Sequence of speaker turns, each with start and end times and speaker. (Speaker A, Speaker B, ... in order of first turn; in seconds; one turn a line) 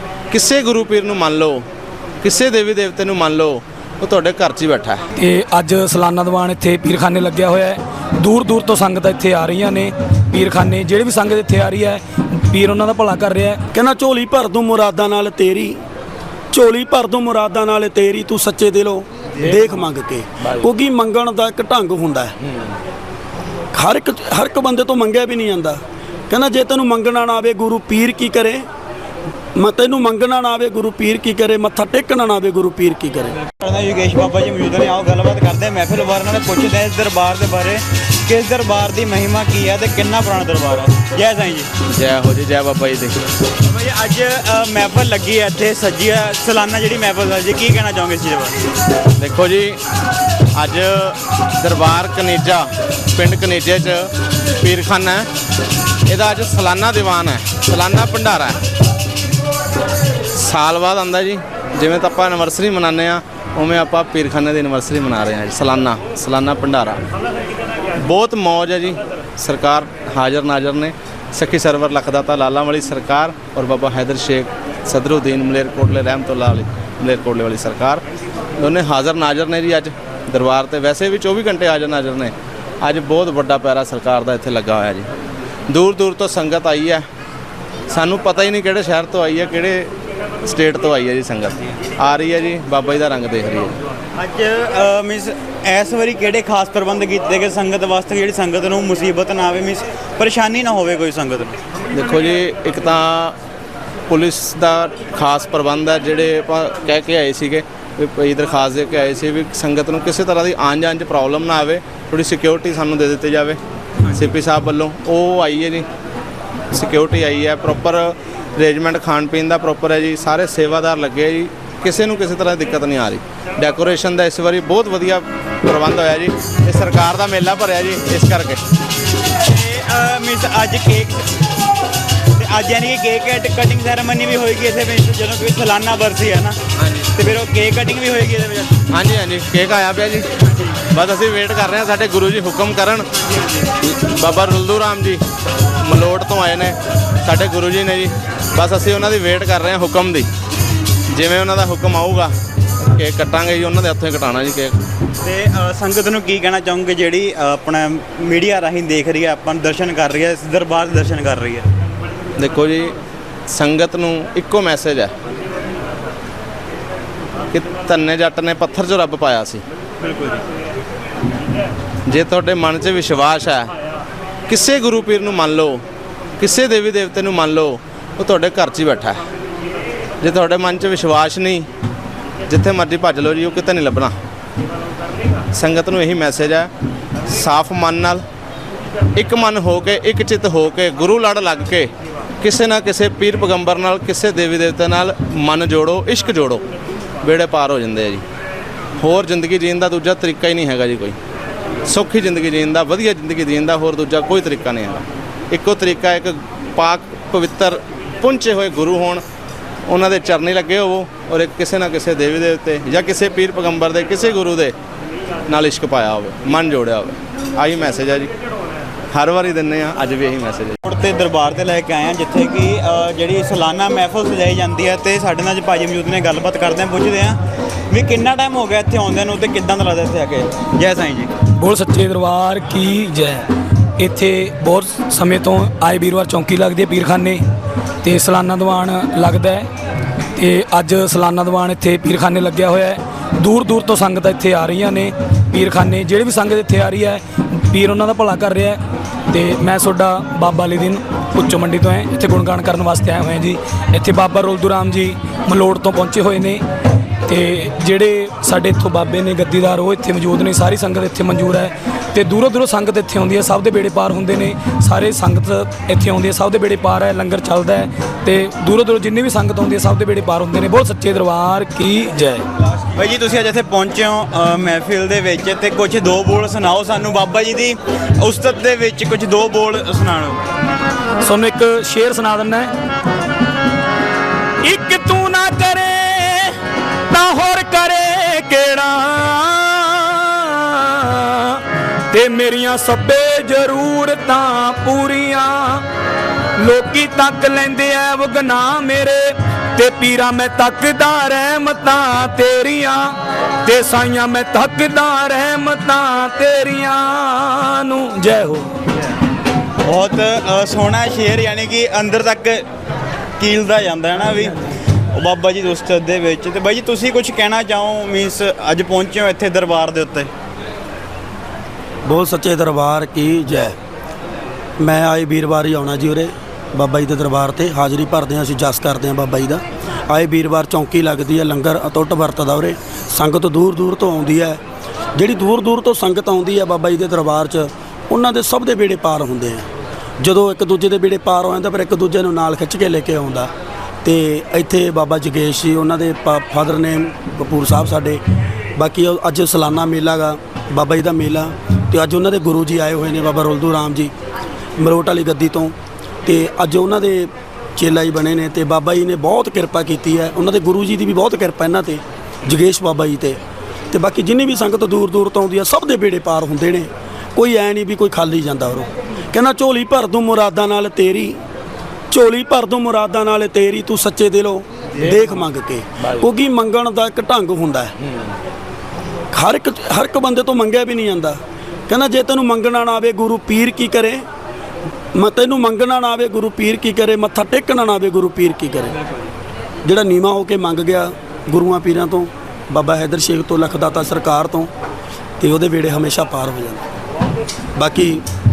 Speaker A: 0.3-1.6
Speaker A: 2.2-5.0
Speaker B: 5.2-13.6
Speaker C: 13.7-15.8
Speaker C: 16.5-22.4
Speaker C: 23.7-25.8
Speaker C: 26.3-28.6
Speaker C: 29.6-33.4
Speaker D: 33.6-41.7
Speaker A: 41.9-43.1
Speaker D: 43.6-48.5
Speaker A: 49.2-49.8
Speaker A: 50.5-54.1
Speaker A: 54.6-55.3
Speaker A: 56.1-58.6
Speaker A: 60.3-67.0
Speaker A: 68.0-78.0
Speaker A: 78.6-85.1
Speaker A: 85.7-87.0
Speaker A: 87.9-89.9
Speaker A: 90.4-93.8
Speaker D: 94.2-101.6
Speaker A: 101.9-103.3
Speaker A: 104.1-113.6
Speaker A: 114.1-115.8
Speaker A: 116.7-128.6
Speaker D: 129.4-131.3
Speaker D: 132.3-136.6
Speaker A: 136.8-137.1
Speaker D: 137.1-138.8
Speaker A: 138.9-140.3
Speaker A: 140.9-143.1
Speaker A: 143.8-145.2
Speaker A: 145.8-150.3
Speaker A: 151.1-154.8
Speaker D: 155.2-161.7
Speaker A: 162.4-162.9
Speaker A: 163.5-165.1
Speaker A: 167.5-169.6
Speaker D: 170.0-170.4
Speaker A: 172.1-173.7
Speaker A: 174.5-175.8
Speaker A: 176.4-179.2
Speaker A: 180.2-181.7
Speaker A: 182.5-184.2
Speaker A: 185.5-186.7
Speaker A: 187.3-188.2
Speaker A: 189.1-191.9
Speaker A: 192.4-196.6
Speaker A: 197.2-198.2
Speaker A: 199.0-201.2
Speaker A: 201.8-209.2
Speaker A: 209.9-214.7
Speaker A: 215.5-218.3
Speaker A: 219.1-220.8
Speaker D: 220.8-227.4
Speaker D: 227.9-231.3
Speaker B: 231.6-237.4
Speaker B: 238.0-239.7
Speaker B: 240.3-256.6
Speaker B: 257.2-272.4
Speaker D: 272.9-280.4
Speaker B: 281.2-282.7
Speaker B: 284.6-286.6
Speaker B: 287.1-295.8
Speaker B: 296.6-308.7
Speaker D: 309.8-312.6
Speaker D: 313.4-314.6
Speaker D: 315.1-320.3
Speaker C: 322.1-323.7
Speaker C: 324.8-334.6
Speaker C: 335.1-339.6
Speaker C: 340.2-343.5
Speaker C: 344.0-348.2
Speaker C: 348.8-354.1
Speaker C: 354.8-355.7
Speaker C: 356.2-363.4
Speaker C: 363.9-371.4
Speaker C: 372.1-377.9
Speaker C: 379.3-381.4
Speaker C: 381.9-384.2
Speaker C: 385.1-388.9
Speaker C: 389.8-394.7
Speaker C: 395.4-396.8
Speaker C: 397.8-398.2